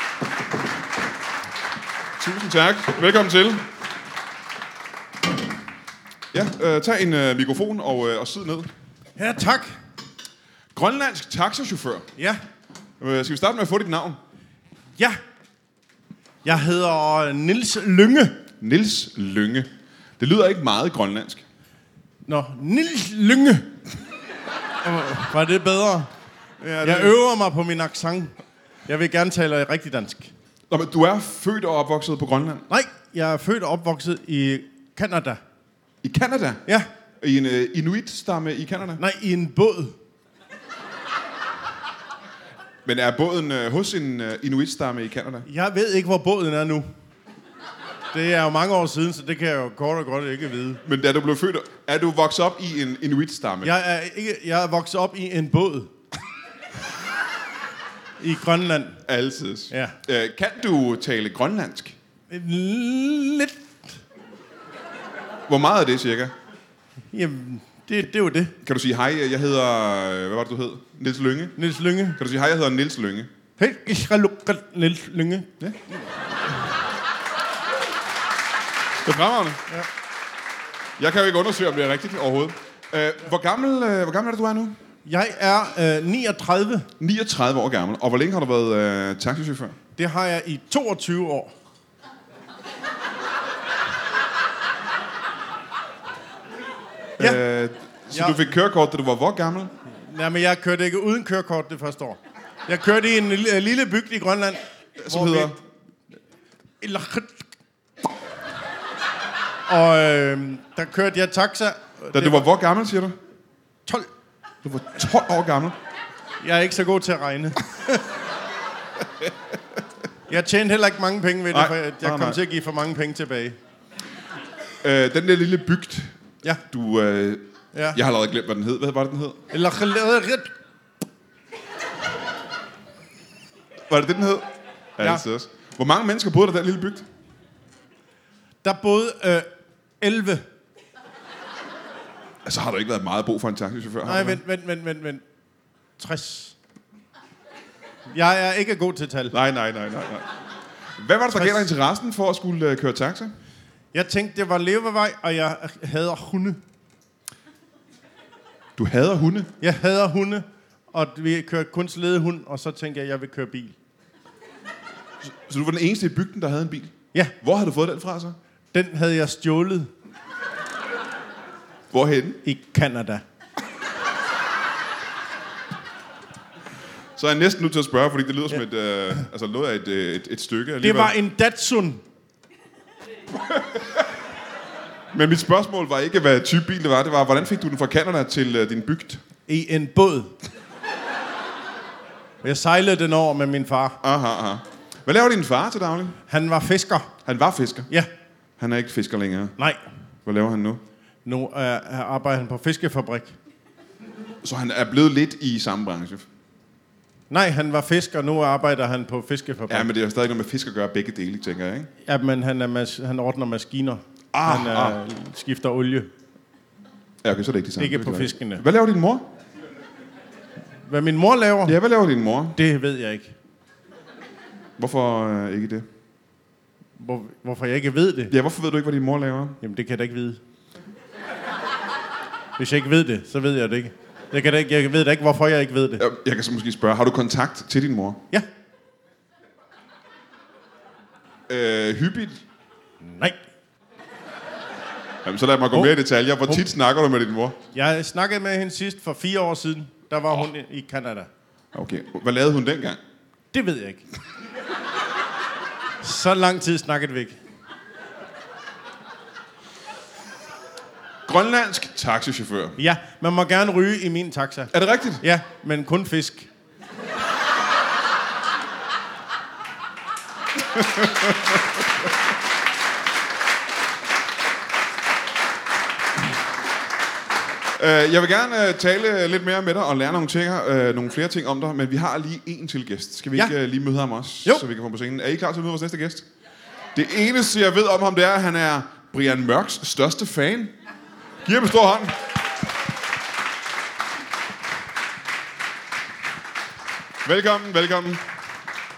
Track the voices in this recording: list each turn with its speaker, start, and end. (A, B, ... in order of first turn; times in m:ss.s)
0:02.2-0:03.7 A
0:06.3-0:08.7 A
0:09.2-0:09.8 B
0:10.7-0:12.1 A
0:13.0-0:14.2 A
0:16.4-0:18.4 B
0:18.6-0:19.7 A
0:20.2-0:21.4 A
0:22.2-0:23.8 B
0:24.8-0:26.1 B
0:26.6-0:27.2 A
0:26.8-0:28.4 B
0:28.9-0:30.3 B
0:30.7-0:32.6 A
0:32.7-0:35.4 B
0:36.0-0:36.6 A
0:37.2-0:39.0 A
0:39.0-0:40.0 B
0:42.8-0:45.4 A
0:45.4-0:46.9 B
0:48.1-0:50.8 B
0:50.8-0:53.7 A
0:53.6-0:55.9 B
0:58.2-0:59.0 B
0:59.1-1:01.9 A
0:59.7-1:00.0 B
1:02.3-1:03.7 B
1:05.5-1:06.3 A
1:07.1-1:08.5 B
1:08.6-1:11.6 A
1:11.6-1:12.2 B
1:12.2-1:13.3 A
1:13.6-1:15.5 B
1:19.0-1:19.6 A
1:21.0-1:24.8 A
1:25.0-1:26.9 B
1:27.0-1:29.7 A
1:30.0-1:31.5 B
1:37.2-1:39.7 A
1:38.1-1:38.4 B
1:40.0-1:45.6 B
1:45.0-1:45.5 A
1:46.8-1:47.4 B
1:49.7-1:52.4 B
1:52.1-1:53.2 A
1:54.6-1:55.8 A
1:56.4-1:58.0 B
2:00.3-2:03.6 B
2:01.5-2:02.4 A
2:04.8-2:06.1 A
2:06.7-2:09.4 A
2:07.7-2:08.0 B
2:09.5-2:10.5 B
2:13.9-2:14.4 A
2:15.0-2:17.0 A
2:18.6-2:19.5 B
2:20.0-2:20.4 B
2:22.4-2:24.4 A
2:24.0-2:25.2 B
2:26.0-2:26.5 B
2:28.1-2:29.3 B
2:29.3-2:30.3 A
2:31.0-2:33.3 A
2:31.3-2:31.7 B
2:33.9-2:36.6 B
2:38.8-2:39.5 A
2:39.6-2:43.8 B
2:45.2-2:48.4 A
2:48.7-2:49.9 B
2:51.9-2:52.4 A
2:52.4-2:53.2 B
2:57.2-3:01.1 A
3:00.8-3:02.0 B
3:05.1-3:09.2 A
3:09.5-3:10.3 B
3:12.4-3:14.0 B
3:14.0-3:16.2 A
3:16.3-3:17.1 B
3:17.2-3:17.9 A
3:18.6-3:19.6 A
3:20.2-3:20.8 A
3:21.2-3:23.3 B
3:24.4-3:26.2 A
3:27.3-3:29.9 B
3:29.7-3:31.9 A
3:32.0-3:36.1 B
3:34.3-3:35.0 A
3:37.2-3:39.3 A
3:37.8-3:38.6 B
3:40.8-3:41.8 B
3:41.7-3:42.6 A
3:42.6-3:43.3 B
3:44.8-3:45.8 A
3:47.0-3:48.3 B
3:48.3-3:49.6 A
3:49.6-3:50.4 B
3:52.6-3:56.0 B
3:56.0-3:58.2 A
4:01.5-4:02.4 A
4:03.0-4:03.4 B
4:05.2-4:07.6 A
4:07.7-4:11.3 B
4:11.7-4:13.0 A
4:13.5-4:14.0 B
4:16.0-4:17.4 B
4:21.3-4:22.8 A
4:22.8-4:26.5 B
4:24.7-4:25.2 A
4:30.7-4:31.6 A
4:37.8-4:46.2 A
4:46.9-4:50.7 A
4:51.4-4:52.2 A
4:57.2-4:58.2 A